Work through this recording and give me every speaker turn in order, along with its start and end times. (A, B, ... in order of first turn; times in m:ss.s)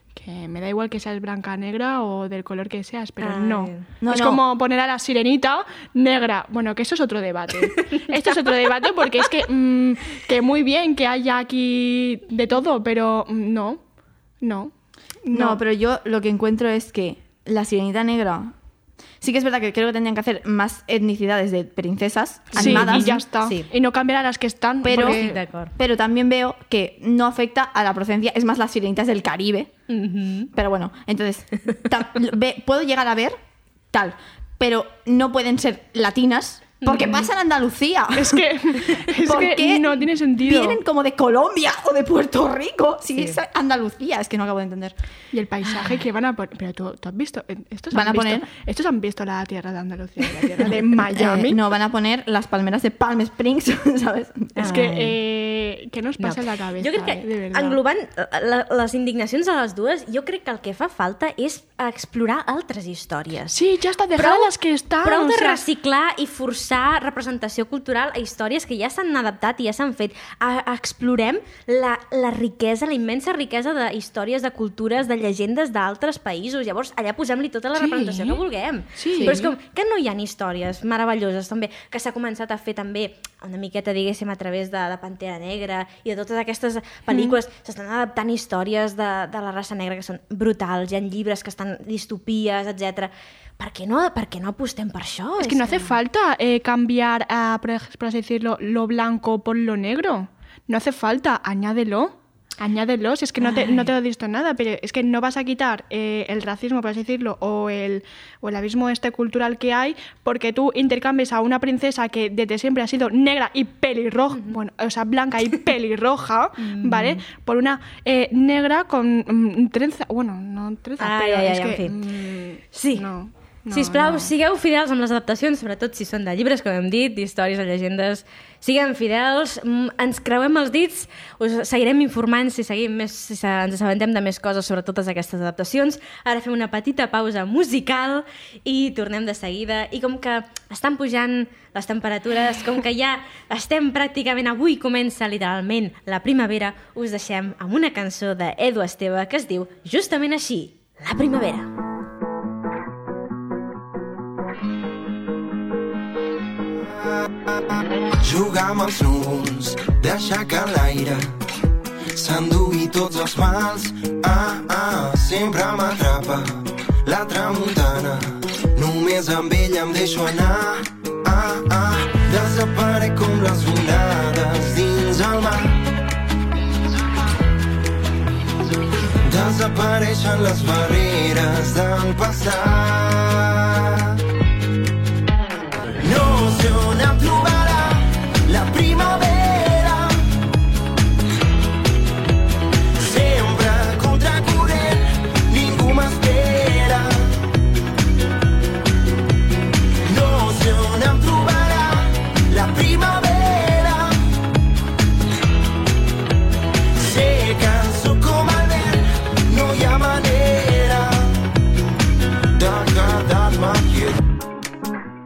0:00.2-0:13.8 A
0:03.2-0:03.8 B
0:04.0-0:04.4 C
0:07.8-0:08.6 B
0:14.4-0:14.7 A
0:15.2-0:15.6 A
0:15.3-0:18.5 C
0:19.2-0:23.2 C
0:22.5-0:23.7 B
0:22.5-0:25.4 A
0:24.8-0:25.2 C
0:24.9-0:25.7 B
0:25.8-0:29.7 C
0:29.9-0:30.5 B
0:30.5-0:33.4 C
0:33.9-0:38.4 C
0:36.8-0:37.3 B
0:38.1-0:40.8 A
0:39.2-0:45.0 C
0:45.3-0:51.6 A
0:47.9-0:48.5 C
0:51.1-0:55.1 C
0:54.6-0:55.0 B
0:54.6-0:57.8 A
0:56.2-1:03.6 B
1:03.5-1:05.6 A
1:04.2-1:04.5 B
1:05.0-1:36.0 B
1:17.8-1:18.4 A
1:19.0-1:19.5 A
1:19.1-1:19.4 C
1:27.1-1:27.4 A
1:35.4-2:04.3 A
1:56.6-1:57.2 B
2:01.0-2:02.1 B
2:02.7-2:03.1 B
2:03.7-2:31.7 B
2:38.2-2:41.3 D
2:42.1-2:55.9 D
2:59.2-3:04.2 D
3:06.0-3:10.3 D
3:12.9-3:17.5 D
3:20.0-3:24.3 D
3:26.9-3:31.5 D
3:32.5-3:34.2 D